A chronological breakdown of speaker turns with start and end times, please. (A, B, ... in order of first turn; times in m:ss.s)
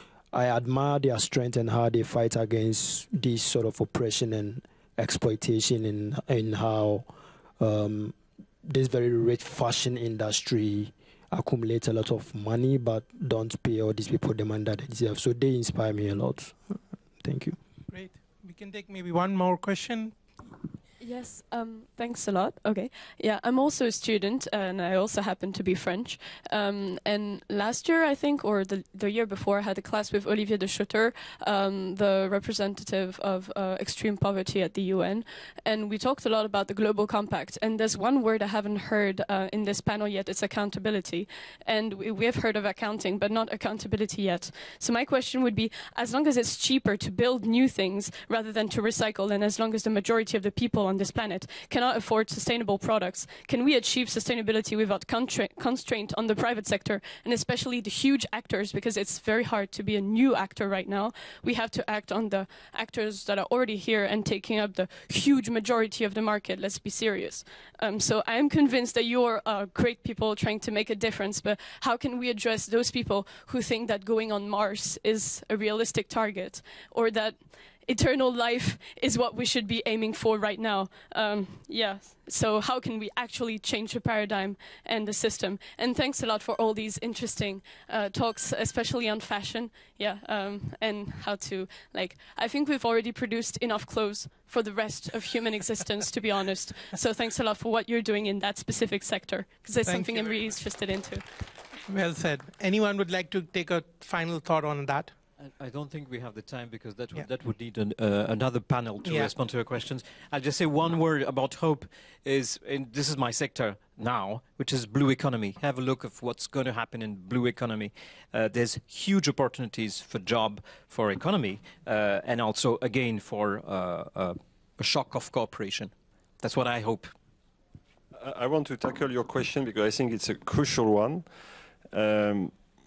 0:00.3-0:17.6 A
0:17.9-0:20.2 B
0:21.0-1:41.3 C
1:39.8-1:40.6 B
1:41.9-1:45.1 B
1:45.4-2:07.1 D
1:49.0-1:49.3 B
2:08.2-2:11.3 E
2:11.9-2:12.5 E